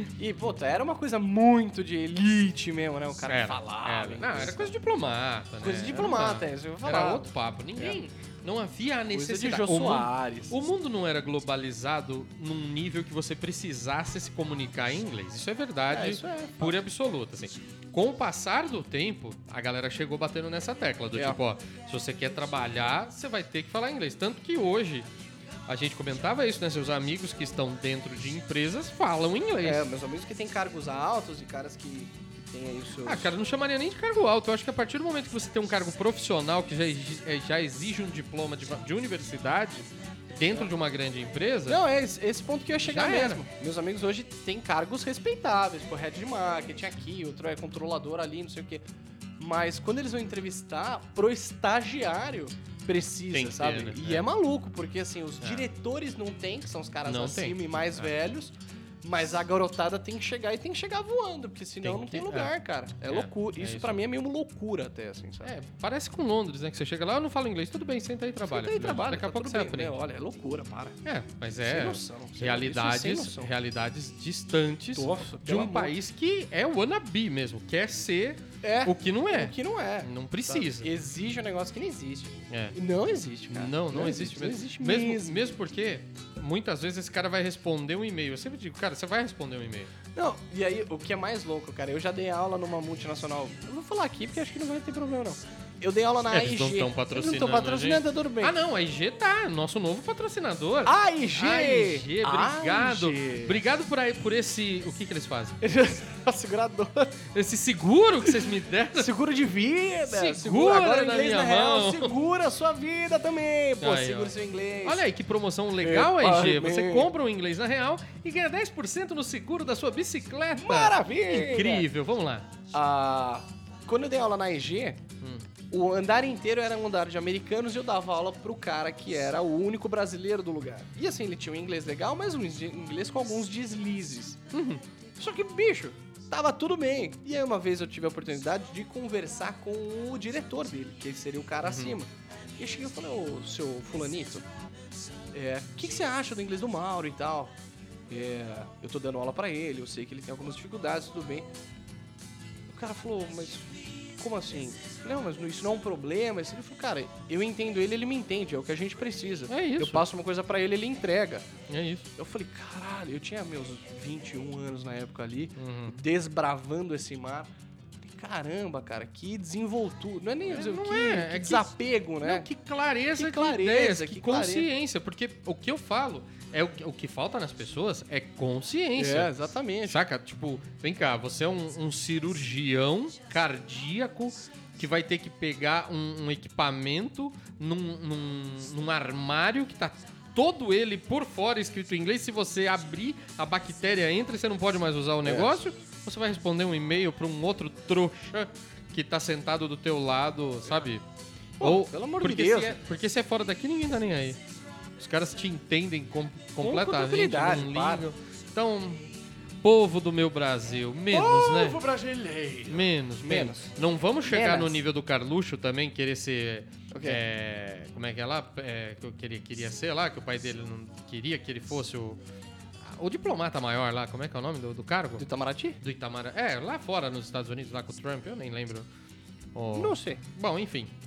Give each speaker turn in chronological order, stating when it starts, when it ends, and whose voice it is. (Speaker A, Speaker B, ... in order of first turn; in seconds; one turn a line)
Speaker A: 0.2-4.7
Speaker B: 3.3-25.1
Speaker A: 5.6-8.1
Speaker A: 9.1-10.5
Speaker A: 15.9-16.7
Speaker B: 25.7-29.8
Speaker A: 29.6-33.3
Speaker B: 33.0-41.8
Speaker A: 41.7-48.8
Speaker B: 42.8-43.4
Speaker A: 49.4-65.5
Speaker B: 53.3-54.3
Speaker B: 55.4-55.7
Speaker B: 57.0-58.1
Speaker B: 61.8-64.0
Speaker B: 65.4-70.0
Speaker A: 68.5-71.0
Speaker B: 71.0-80.9
Speaker A: 71.7-73.5
Speaker A: 74.9-75.9
Speaker A: 78.6-85.4
Speaker B: 82.5-82.8
Speaker B: 83.5-89.9
Speaker A: 90.2-98.5
Speaker B: 96.3-105.6
Speaker A: 100.8-103.6
Speaker A: 105.6-107.2
Speaker B: 107.3-109.1
Speaker A: 108.2-115.0
Speaker B: 110.0-112.1
Speaker B: 113.8-122.5
Speaker A: 115.8-117.1
Speaker A: 120.5-121.8
Speaker A: 122.7-125.0
Speaker B: 125.2-125.5
Speaker A: 125.7-134.4
Speaker B: 134.5-134.8
Speaker A: 135.2-144.5
Speaker B: 141.6-142.0
Speaker A: 145.3-147.5
Speaker A: 148.1-151.5
Speaker A: 152.7-161.5
Speaker B: 159.5-160.0
Speaker B: 161.7-162.1
Speaker A: 162.2-172.5
Speaker B: 165.6-166.0
Speaker B: 170.4-179.3
Speaker A: 173.1-174.7
Speaker A: 179.0-180.0
Speaker B: 179.8-201.0
Speaker A: 195.2-195.5
Speaker A: 201.6-202.8
Speaker B: 201.6-204.4
Speaker B: 205.0-209.1
Speaker A: 206.6-208.1
Speaker B: 209.6-211.8
Speaker A: 211.1-213.7
Speaker B: 212.7-222.2
Speaker A: 214.2-214.7
Speaker A: 216.9-217.2
Speaker B: 222.8-225.2
Speaker A: 225.2-225.8
Speaker B: 225.8-228.9
Speaker B: 229.5-230.9
Speaker A: 229.7-230.2